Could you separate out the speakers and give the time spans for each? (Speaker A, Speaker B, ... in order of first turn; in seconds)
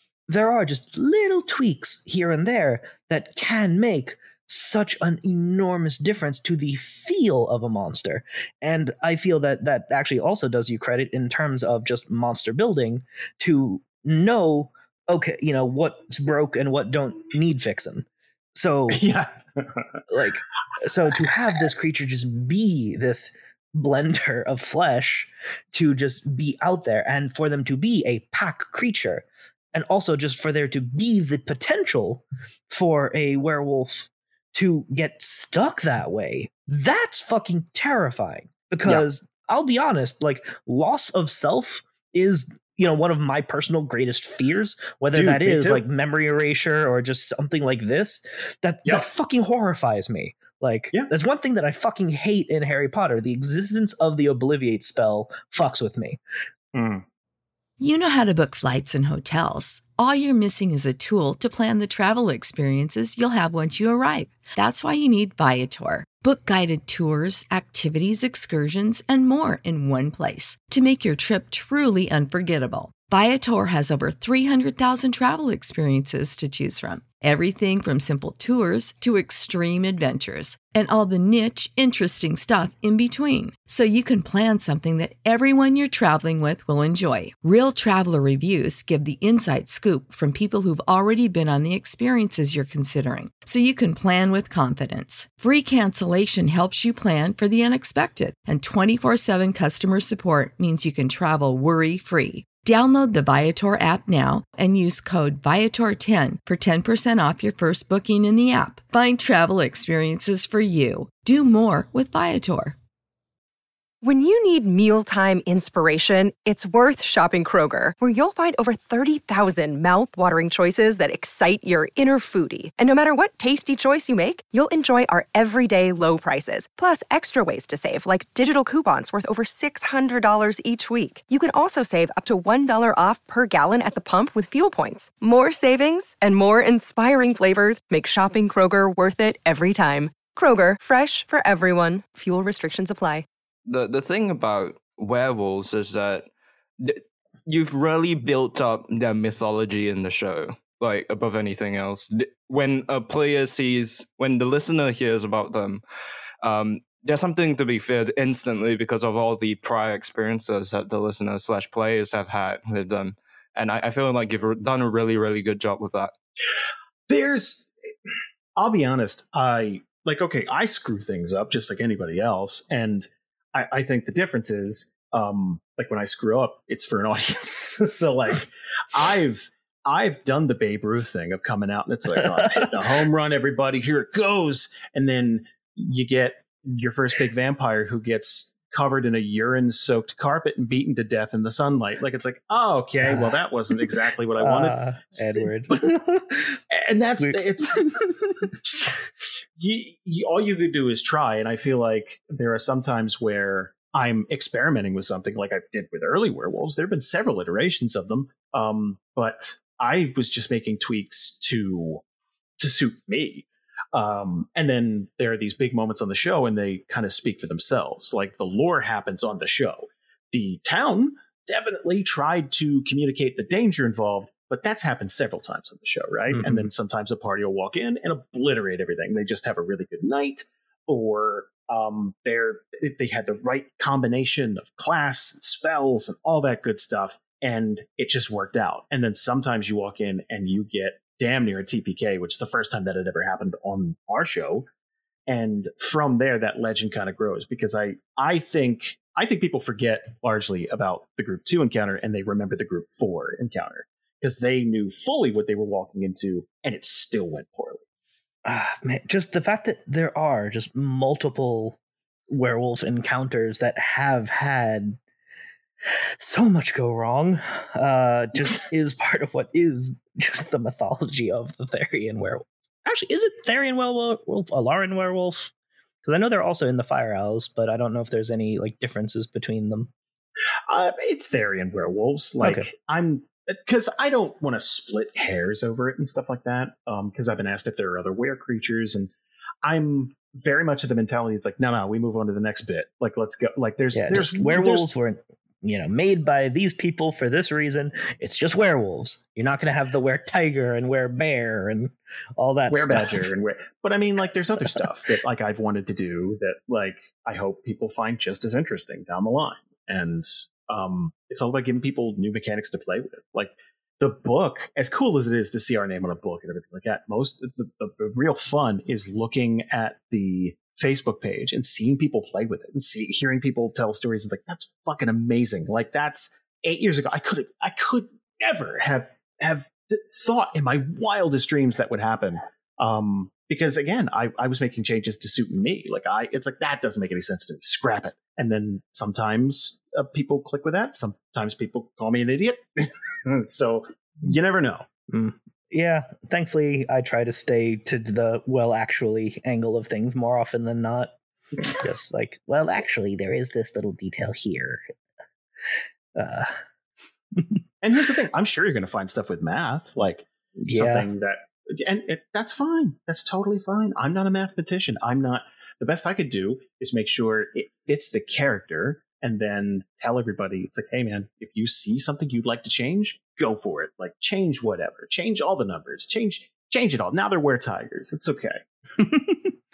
Speaker A: 0.3-19.0, 20.1-56.2, 194.4-196.6, 197.2-198.4, 226.3-226.7, 258.4-261.8, 262.3-265.0, 266.2-275.5, 276.0-279.9, 282.4-282.7, 293.9-303.3, 345.1-351.1, 351.7-354.9, 356.1-356.6, 360.7-361.1, 379.1-379.5
Speaker B: 18.9-19.8, 45.1-45.8, 56.7-57.0, 167.1-167.7, 168.6-195.9, 196.7-197.8, 199.6-212.0, 212.6-244.7, 245.3-257.8, 280.7-289.1, 289.6-294.9, 302.7-344.9, 357.8-378.6
Speaker C: 57.8-112.8
Speaker D: 114.0-143.2
Speaker E: 143.7-146.3, 146.8-155.8, 156.4-166.1